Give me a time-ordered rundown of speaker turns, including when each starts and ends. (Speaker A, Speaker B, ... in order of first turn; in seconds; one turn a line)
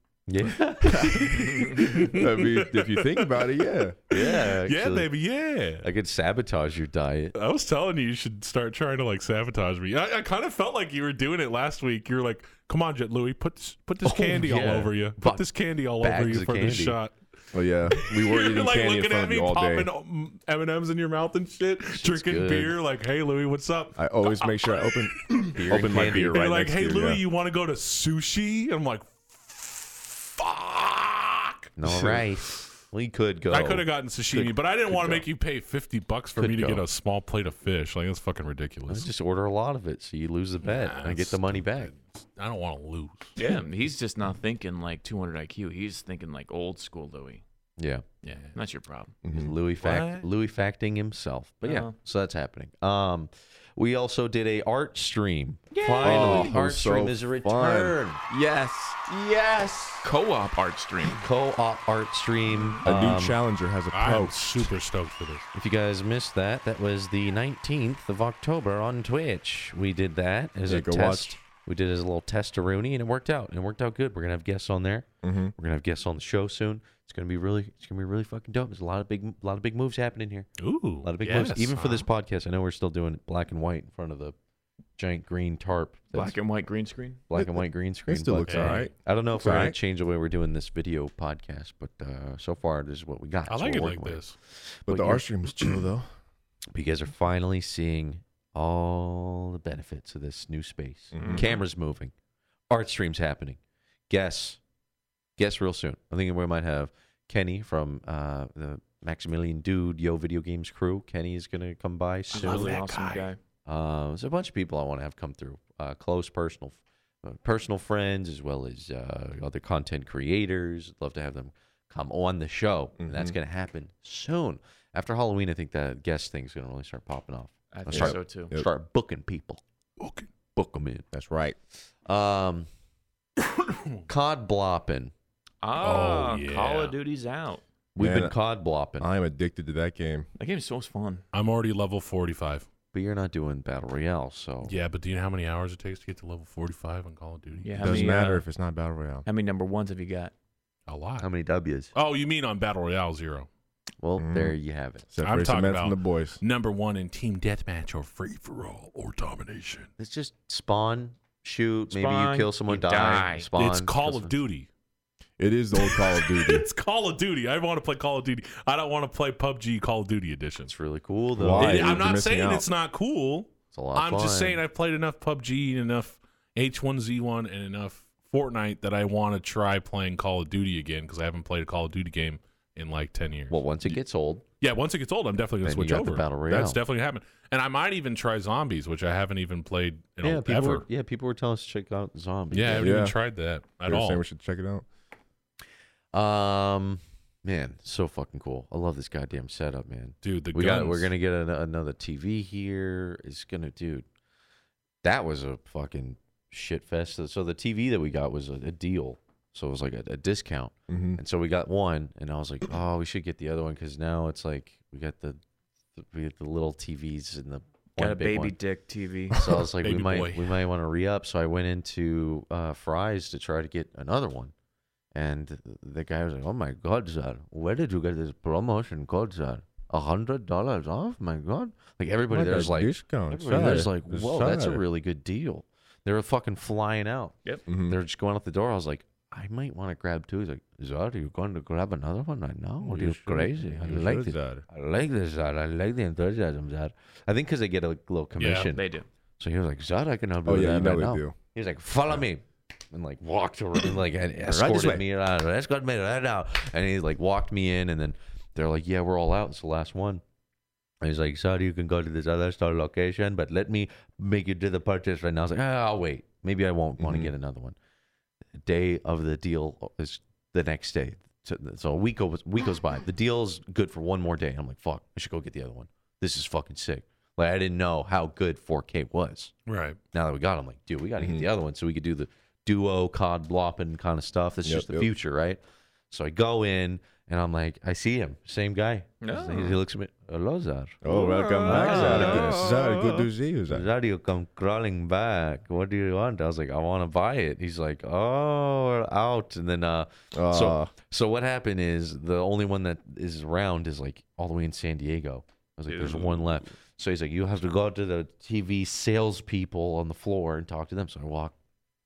Speaker A: 0.3-1.9
Speaker B: 0.9-4.0
Speaker C: 1.6-3.6
Speaker A: 4.1-5.1
Speaker C: 4.1-5.9
Speaker A: 5.8-7.4
Speaker C: 7.3-17.2
Speaker A: 14.0-15.4
Speaker A: 16.0-17.0
Speaker B: 17.5-19.9
Speaker C: 17.9-32.2
Speaker A: 21.9-22.8
Speaker B: 24.0-27.2
Speaker A: 25.5-26.4
Speaker A: 31.8-35.2
Speaker B: 31.9-32.1
Speaker C: 33.5-39.1
Speaker A: 36.4-36.8
Speaker A: 38.9-41.9
Speaker C: 40.6-43.4
Speaker D: 43.4-47.4
Speaker A: 47.8-48.0
Speaker D: 48.2-49.1
Speaker B: 49.2-49.5
Speaker A: 49.3-58.2
Speaker D: 49.8-50.2
Speaker D: 51.6-51.9
Speaker D: 55.7-56.5
Speaker B: 56.0-58.0
Speaker D: 58.3-61.2
Speaker A: 61.0-63.4
Speaker D: 62.5-62.8
Speaker B: 62.8-64.7
Speaker C: 63.9-65.5
Speaker A: 65.5-80.5
Speaker B: 70.7-71.4
Speaker B: 75.2-75.5
Speaker C: 80.6-82.1
Speaker A: 81.0-84.3
Speaker A: 85.0-86.4
Speaker D: 86.1-87.2
Speaker A: 87.3-95.4
Speaker B: 87.4-89.8
Speaker C: 88.5-88.9
Speaker C: 93.5-94.3
Speaker B: 94.9-96.1
Speaker A: 96.7-102.1
Speaker B: 101.1-101.5
Speaker D: 101.2-101.6
Speaker A: 102.7-104.6
Speaker A: 105.4-112.8
Speaker D: 112.3-113.4
Speaker C: 112.3-113.3
Speaker A: 113.7-129.6
Speaker B: 123.0-123.3
Speaker D: 127.7-128.5
Speaker B: 127.9-128.7
Speaker C: 130.0-130.3
Speaker A: 130.6-131.1
Speaker B: 131.1-131.6
Speaker A: 132.1-132.7
Speaker C: 133.4-134.0
Speaker A: 134.1-135.1
Speaker D: 135.6-137.6
Speaker C: 135.7-136.9
Speaker A: 137.9-139.1
Speaker B: 138.0-138.4
Speaker B: 139.0-140.3
Speaker D: 140.4-141.2
Speaker C: 141.3-142.7
Speaker A: 142.9-144.7
Speaker C: 144.6-148.2
Speaker D: 147.6-148.4
Speaker B: 147.8-149.2
Speaker D: 149.2-150.3
Speaker C: 150.9-151.2
Speaker A: 151.2-151.9
Speaker C: 151.9-153.5
Speaker A: 154.0-155.1
Speaker B: 154.2-154.6
Speaker B: 155.1-156.4
Speaker C: 155.2-159.9
Speaker A: 160.0-164.3
Speaker D: 161.9-163.5
Speaker C: 163.4-164.7
Speaker B: 165.4-166.7
Speaker C: 165.7-170.7
Speaker A: 170.6-172.0
Speaker B: 171.4-172.7
Speaker C: 171.5-184.0
Speaker A: 173.7-174.6
Speaker A: 183.5-184.4
Speaker C: 184.6-190.9
Speaker A: 185.6-186.8
Speaker A: 190.2-193.1
Speaker C: 192.5-194.2
Speaker B: 192.7-193.2
Speaker B: 193.9-194.8
Speaker A: 196.1-204.1
Speaker C: 200.2-201.1
Speaker A: 205.0-215.4
Speaker B: 210.9-211.2
Speaker A: 215.9-218.6
Speaker D: 218.0-219.4
Speaker A: 219.3-224.5
Speaker C: 219.8-220.6
Speaker A: 225.1-260.2
Speaker B: 232.3-234.8
Speaker B: 237.7-238.0
Speaker B: 242.8-244.6
Speaker C: 248.4-248.7
Speaker D: 248.7-249.1
Speaker B: 250.4-251.4
Speaker B: 254.4-255.1
Speaker A: 261.0-267.8
Speaker B: 267.0-267.3
Speaker A: 268.6-279.5
Speaker C: 279.6-280.0
Speaker A: 280.1-311.6
Speaker B: 281.2-281.4
Speaker B: 284.6-285.1
Speaker D: 289.2-289.8
Speaker B: 291.0-293.9
Speaker D: 291.1-292.8
Speaker B: 300.3-300.9
Speaker D: 305.9-306.6